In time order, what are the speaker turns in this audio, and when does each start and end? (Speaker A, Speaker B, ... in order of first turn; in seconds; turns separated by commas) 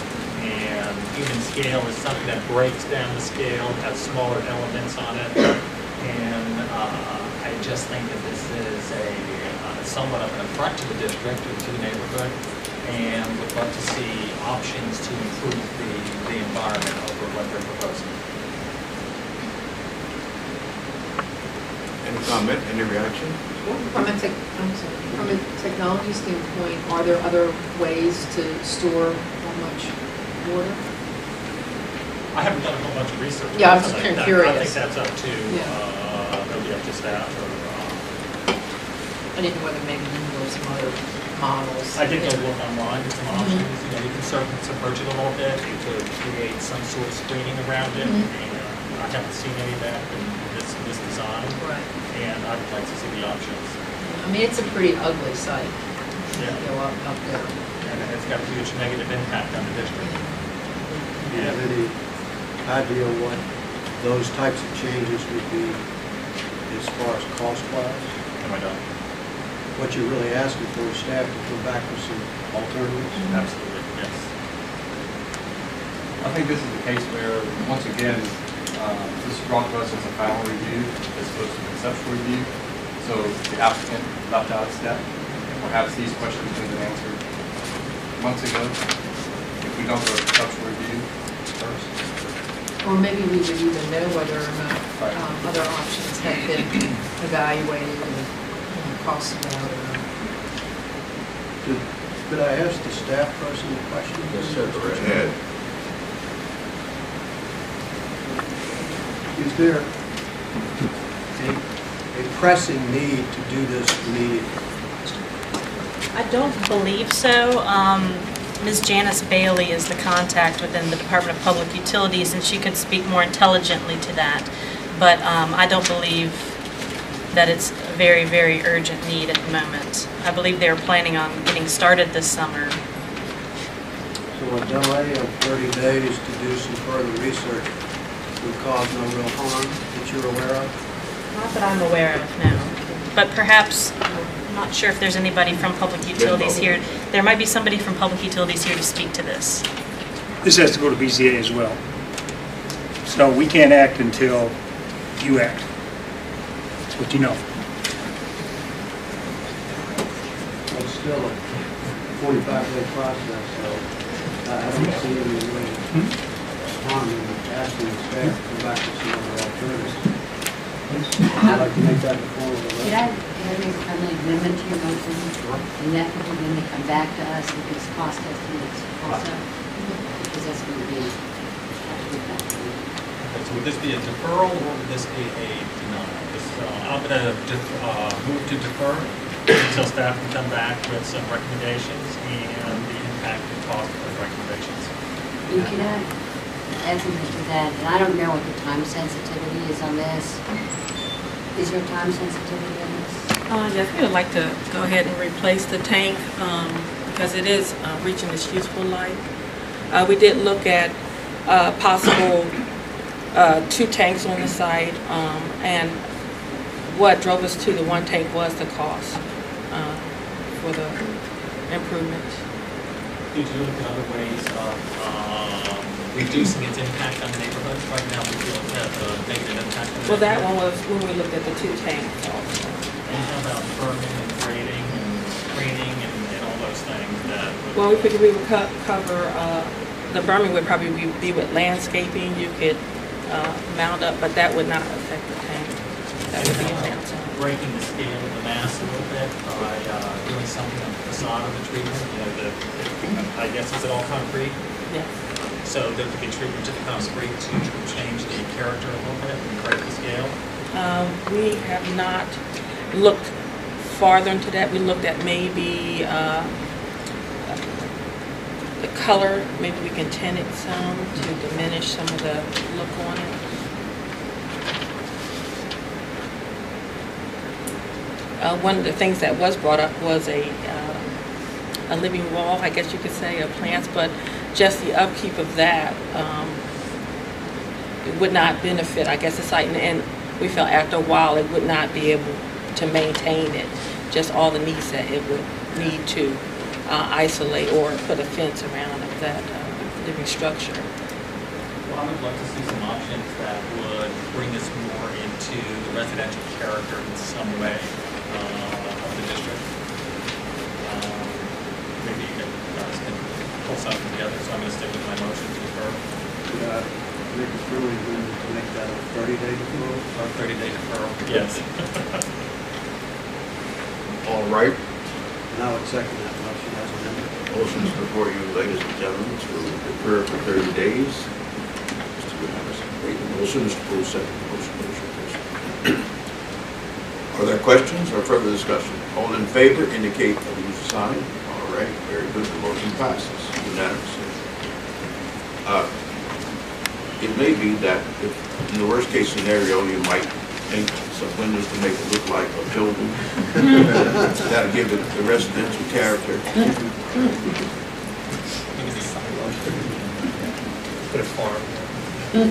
Speaker A: 0.3-5.5, Speaker A: 6.0-18.1, Speaker B: 22.0-23.4, Speaker C: 23.6-30.8, Speaker A: 32.3-38.0, Speaker C: 33.5-34.9, Speaker C: 35.5-35.8, Speaker C: 39.3-42.5, Speaker A: 41.9-53.7, Speaker C: 43.3-43.7, Speaker C: 48.0-48.3, Speaker C: 51.5-51.9, Speaker C: 54.0-57.5, Speaker A: 56.3-56.7, Speaker A: 57.8-60.1, Speaker C: 60.0-61.4, Speaker A: 61.3-61.6, Speaker D: 61.3-65.8, Speaker D: 66.6-68.2, Speaker A: 68.4-68.8, Speaker D: 69.7-73.3, Speaker A: 73.2-74.3, Speaker E: 76.2-87.2, Speaker E: 88.2-88.8, Speaker E: 89.6-92.2, Speaker C: 92.8-100.1, Speaker D: 101.6-105.3, Speaker B: 104.2-105.4, Speaker D: 109.3-109.9, Speaker D: 111.3-114.5, Speaker F: 116.1-126.5, Speaker F: 127.3-132.8, Speaker D: 134.3-137.7, Speaker D: 138.4-140.7, Speaker F: 141.3-149.6, Speaker B: 146.1-146.9, Speaker G: 150.4-151.8, Speaker G: 153.0-154.5, Speaker G: 155.2-155.7, Speaker G: 157.0-157.4, Speaker D: 160.7-170.2, Speaker D: 171.4-173.0, Speaker H: 172.8-182.8, Speaker C: 179.7-180.1, Speaker A: 183.2-194.9, Speaker H: 195.4-200.4, Speaker H: 201.5-203.3, Speaker I: 203.4-209.3, Speaker I: 209.9-212.7, Speaker I: 213.3-216.1, Speaker I: 216.8-222.4, Speaker A: 223.3-230.5, Speaker I: 230.1-232.8, Speaker A: 233.0-238.2, Speaker I: 237.7-247.3, Speaker A: 246.3-254.6, Speaker A: 255.3-260.4, Speaker I: 260.7-266.9, Speaker I: 267.4-268.0, Speaker I: 268.8-273.4, Speaker I: 278.4-281.1, Speaker I: 281.9-286.6, Speaker I: 288.0-300.9, Speaker A: 301.8-309.6, Speaker A: 310.8-316.0, Speaker D: 316.5-320.1, Speaker A: 320.1-322.2, Speaker B: 324.2-324.8, Speaker D: 325.5-327.3, Speaker B: 327.5-331.3, Speaker B: 332.2-336.0, Speaker B: 337.3-344.4, Speaker B: 345.6-345.9, Speaker B: 347.2-356.6, Speaker A: 358.7-360.4, Speaker A: 361.1-362.3